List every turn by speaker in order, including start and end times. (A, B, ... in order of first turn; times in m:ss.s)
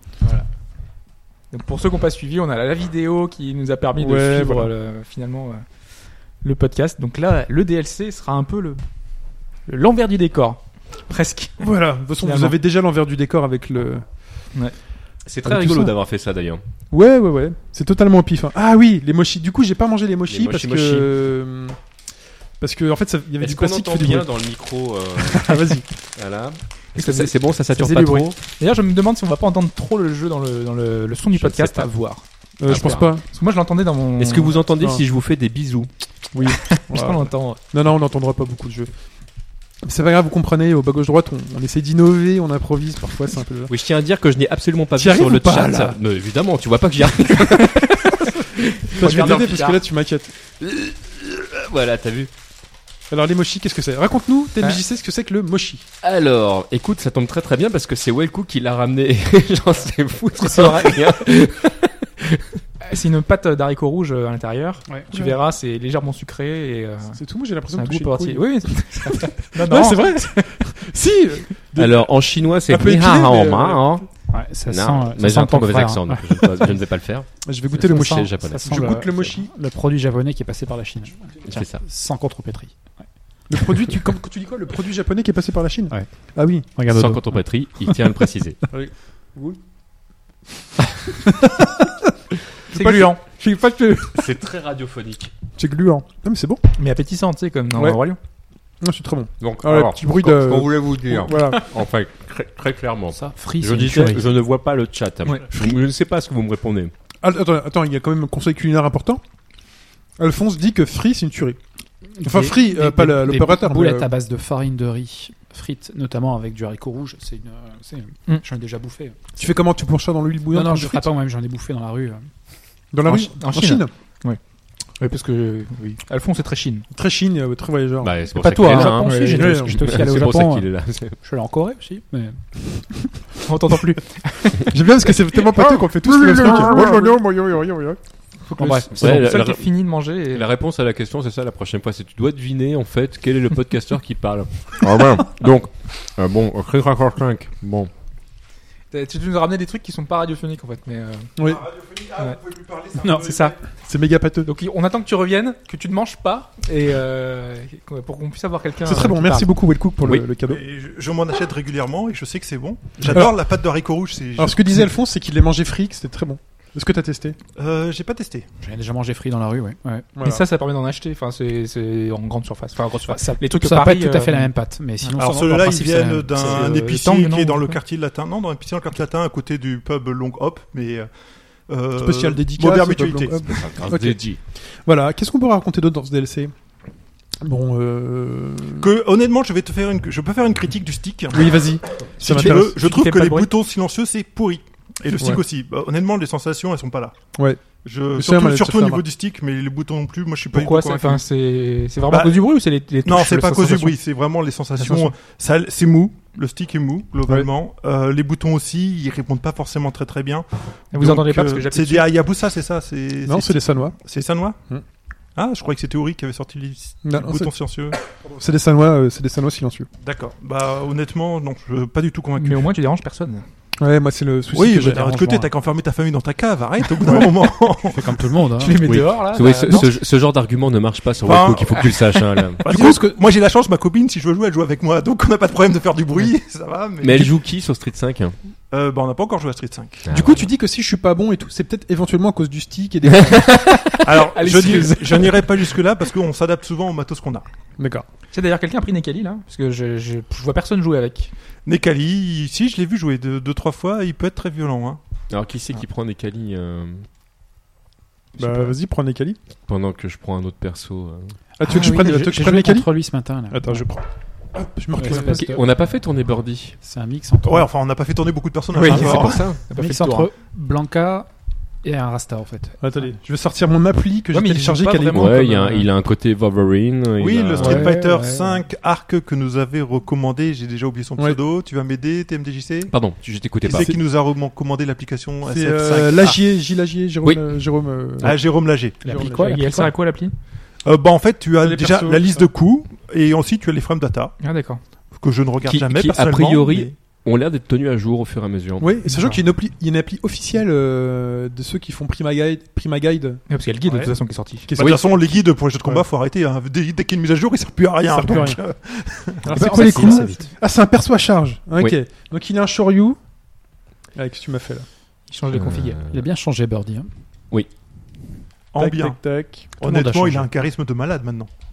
0:00.2-0:00.4 A
0:01.5-0:05.7 A
0:04.0-0:04.7 B
0:06.4-0:08.8 A
0:09.7-0:11.6 A
0:11.6-0:14.0 B
0:12.2-0:12.6 A
0:15.3-0:16.6 C
0:15.4-0:15.9 B
0:16.9-0:21.8 B
0:20.3-0:21.1 C
0:22.6-0:24.3 B
0:23.4-0:25.6 C
0:25.2-0:25.8 B
0:26.2-0:28.4 C
0:27.0-0:32.2 A
0:31.4-0:31.9 C
0:32.6-0:33.2 B
0:32.7-0:33.1 C
0:33.2-0:34.6 A
0:34.2-0:35.9 C
0:36.3-0:38.9 B
0:36.5-0:37.6 A
0:39.8-0:43.7 B
0:43.7-0:49.5 C
0:45.0-0:46.0 B
0:47.7-0:48.2 A
0:48.9-0:49.8 A
0:48.9-0:50.3 B
0:50.6-0:52.3 C
0:53.1-0:55.8 B
0:56.0-1:02.6 C
1:00.4-1:01.2 A
1:02.8-1:07.2 A
1:07.1-1:14.0 B
1:07.7-1:10.6 A
1:11.8-1:14.0 C
1:14.3-1:16.8 D
1:14.7-1:18.8 C
1:17.4-1:19.5 B
1:17.8-1:22.9 D
1:21.5-1:21.8 C
1:23.5-1:26.7 B
1:26.8-1:28.1 D
1:26.9-1:28.6 C
1:28.7-1:29.6 B
1:31.2-1:32.1 B
1:32.7-1:34.3 B
1:32.7-1:33.2 A
1:34.1-1:35.3 C
1:35.6-1:36.6 B
1:36.8-1:38.2 A
1:38.8-1:41.6 B
1:39.4-1:46.9 C
1:43.1-1:44.3 D
1:45.2-1:45.7 B
1:47.2-1:49.2 B
1:50.2-1:51.6 B
1:52.2-1:59.2 D
1:52.2-1:54.1 B
1:59.4-2:01.1 B
2:00.5-2:02.3 D
2:02.9-2:03.9 B
2:03.0-2:04.4 A
2:05.0-2:06.8 A
2:06.9-2:08.2 B
2:08.0-2:11.2 C
2:08.4-2:10.7 D
2:08.6-2:10.0 A
2:09.1-2:09.8 B
2:11.3-2:12.0 A
2:12.0-2:12.4 D
2:13.4-2:14.7 A
2:14.7-2:18.0 B
2:18.5-2:20.5 A
2:18.6-2:19.2 D
2:18.9-2:19.6 C
2:20.3-2:27.9 C
2:28.9-2:31.3 A
2:31.4-2:31.6 B
2:31.4-2:33.6 E
2:33.0-2:34.5 B
2:33.1-2:33.6 A
2:34.4-2:39.5 A
2:38.8-2:40.6 B
2:40.4-2:44.8 E
2:43.1-2:43.4 B
2:44.4-2:47.4 B
2:47.6-2:48.5 E
2:48.6-2:50.1 D
2:50.2-2:50.4 B
2:50.2-2:55.3 A
2:52.9-2:56.6 D
2:55.2-3:01.1 E
2:56.3-2:57.8 A
3:01.7-3:03.6 E
3:02.0-3:04.2 B
3:03.5-3:04.4 C
3:04.8-3:06.5 B
3:07.4-3:08.9 B
3:08.8-3:11.6 E
3:11.3-3:12.8 B
3:12.2-3:17.1 E
3:12.7-3:13.5 A
3:17.3-3:17.6 B
3:17.8-3:21.2 E
3:18.1-3:19.0 B
3:20.5-3:24.0 A
3:22.1-3:22.4 E
3:23.0-3:34.6 E
3:30.9-3:32.1 A
3:33.2-3:34.0 B
3:35.3-3:38.0 E
3:37.0-3:39.9 B
3:40.0-3:42.7 E
3:42.4-3:43.4 A
3:43.8-3:45.2 B
3:44.5-3:48.2 E
3:44.9-3:45.5 D
3:47.8-3:48.9 D
3:48.5-3:50.0 A
3:48.8-3:52.6 C
3:51.2-3:51.9 E
3:52.6-3:57.3 E
3:52.7-3:53.0 B
3:57.0-3:58.3 C
3:58.7-4:00.1 E
4:00.0-4:00.4 C
4:00.1-4:03.8 B
4:03.3-4:04.0 C
4:04.0-4:07.5 E
4:04.3-4:05.4 A
4:07.8-4:08.0 B
4:08.3-4:11.3 A
4:11.7-4:15.0 E
4:15.3-4:17.1 C
4:18.4-4:18.7 A
4:18.4-4:19.4 B
4:19.7-4:21.4 C
4:21.6-4:23.0 B
4:21.6-4:23.9 D
4:23.5-4:25.5 B
4:25.0-4:25.6 D
4:25.2-4:26.8 C
4:26.8-4:27.7 D
4:27.4-4:29.5 E
4:28.8-4:29.6 C
4:28.9-4:31.3 D
4:29.6-4:30.3 A
4:31.8-4:32.8 D
4:32.8-4:35.4 B
4:34.3-4:35.8 A
4:35.1-4:38.0 C
4:37.2-4:42.9 E
4:37.6-4:38.6 D
4:42.9-4:43.9 C
4:43.6-4:46.4 E
4:43.7-4:44.0 B
4:45.4-4:48.4 B
4:48.2-4:49.0 E
4:49.0-4:49.8 B
4:49.0-4:49.9 D
4:49.3-4:50.3 A
4:50.8-4:54.4 E
4:51.6-4:52.4 B
4:54.4-4:54.8 A
4:55.1-4:56.9 E
4:55.6-4:58.9 C
4:58.8-5:03.4 B
5:03.5-5:04.7 A
5:03.9-5:04.1 E
5:04.7-5:06.0 B
5:04.8-5:09.6 E
5:08.1-5:08.6 B
5:09.4-5:13.2 B
5:09.5-5:10.5 C
5:09.6-5:10.3 A
5:14.2-5:14.9 B
5:15.3-5:16.0 A
5:15.5-5:16.2 C
5:16.1-5:17.1 D
5:18.7-5:19.2 E
5:18.8-5:19.7 B
5:19.8-5:21.5 E
5:19.8-5:20.5 D